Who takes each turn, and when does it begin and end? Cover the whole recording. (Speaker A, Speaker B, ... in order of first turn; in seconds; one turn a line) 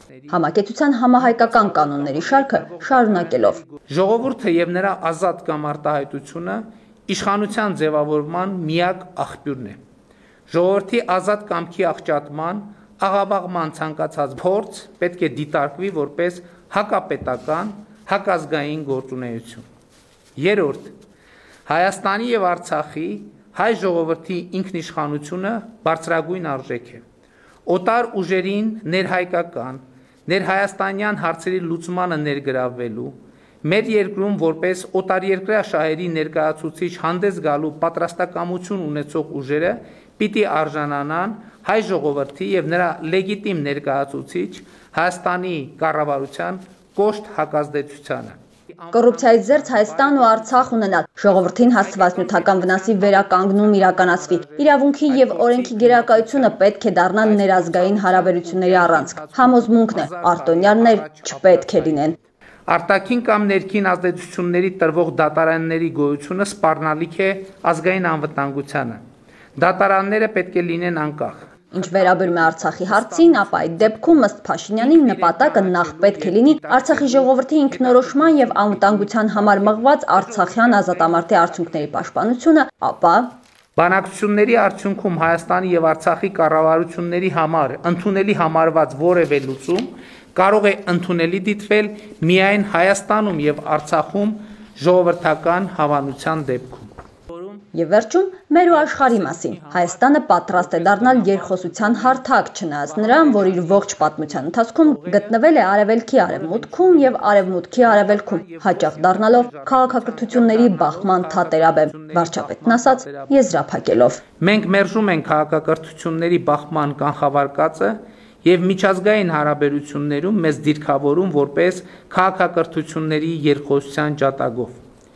Speaker A: 0.3-3.6
Speaker B: 1.2-9.8
Speaker B: 10.5-19.6
Speaker B: 20.4-20.9
Speaker B: 21.7-27.0
Speaker B: 27.7-50.8
Speaker A: 48.9-62.2
Speaker B: 51.4-56.6
Speaker B: 57.2-62.1
Speaker B: 62.7-69.0
Speaker B: 69.6-82.0
Speaker A: 71.7-83.3
Speaker B: 83.8-97.6
Speaker A: 97.7-114.2
Speaker B: 98.7-102.2
Speaker B: 102.8-105.5
Speaker B: 106.2-113.4
Speaker B: 114.4-124.8